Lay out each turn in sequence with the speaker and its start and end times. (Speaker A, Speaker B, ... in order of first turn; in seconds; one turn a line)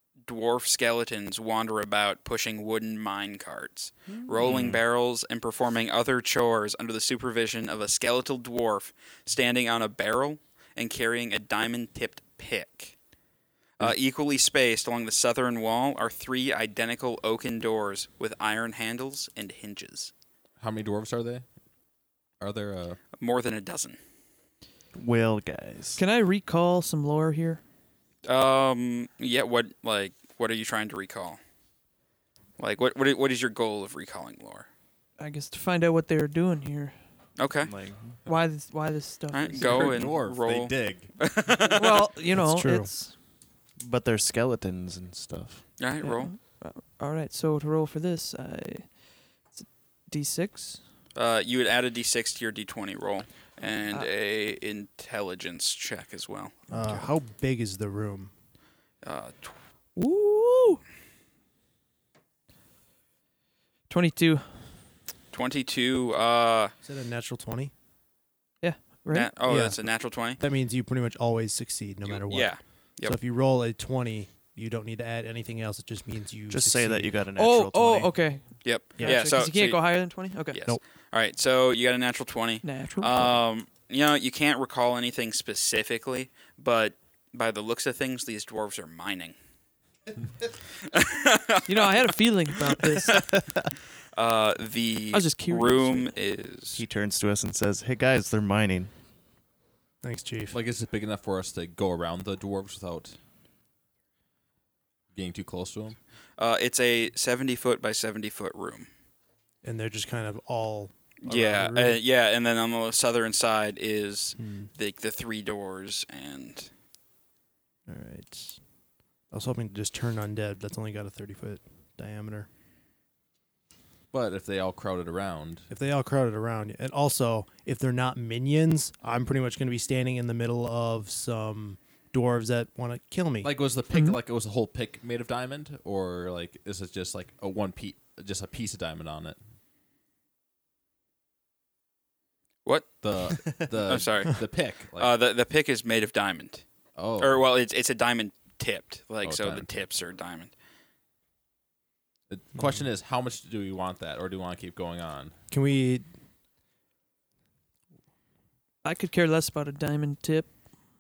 Speaker A: 0.2-12.9
Speaker B: 4.1-4.6
Speaker C: 4.4-4.8
Speaker A: 13.8-20.1
Speaker C: 20.6-21.4
Speaker C: 22.4-23.0
Speaker A: 23.2-24.0
Speaker B: 24.9-26.0
Speaker D: 25.9-27.6
Speaker A: 28.2-31.4
Speaker A: 32.6-34.7
Speaker D: 35.2-37.0
Speaker A: 37.4-37.7
Speaker B: 37.6-38.2
Speaker D: 38.2-40.1
Speaker A: 39.3-42.1
Speaker C: 39.6-41.2
Speaker D: 41.7-43.1
Speaker E: 42.3-42.9
Speaker B: 43.8-45.6
Speaker A: 45.8-46.3
Speaker D: 46.0-50.8
Speaker A: 51.1-56.6
Speaker D: 56.7-57.1
Speaker E: 56.7-58.3
Speaker A: 59.0-59.6
Speaker D: 60.0-60.8
Speaker D: 63.9-64.5
Speaker A: 65.3-66.7
Speaker E: 66.8-67.7
Speaker D: 68.6-69.4
Speaker A: 69.1-70.4
Speaker E: 69.4-77.2
Speaker A: 72.0-73.2
Speaker B: 76.5-78.1
Speaker D: 77.3-80.6
Speaker A: 78.6-89.3
Speaker D: 82.6-83.4
Speaker A: 90.9-92.1
Speaker D: 91.7-93.3
Speaker A: 94.1-96.8
Speaker D: 95.1-96.1
Speaker B: 96.7-98.9
Speaker E: 100.0-100.5
Speaker C: 100.5-103.2
Speaker C: 105.1-106.0
Speaker A: 106.4-108.9
Speaker E: 109.6-112.0
Speaker A: 111.2-116.7
Speaker E: 114.4-114.7
Speaker E: 117.9-118.6
Speaker E: 119.3-122.5
Speaker C: 124.1-125.7
Speaker E: 125.7-133.5
Speaker C: 133.4-139.4
Speaker A: 142.6-146.6
Speaker C: 143.0-145.1
Speaker C: 146.9-147.4
Speaker A: 147.2-150.5
Speaker C: 149.2-149.7
Speaker C: 152.3-155.3
Speaker E: 152.6-152.8
Speaker E: 155.5-156.0
Speaker D: 158.8-160.5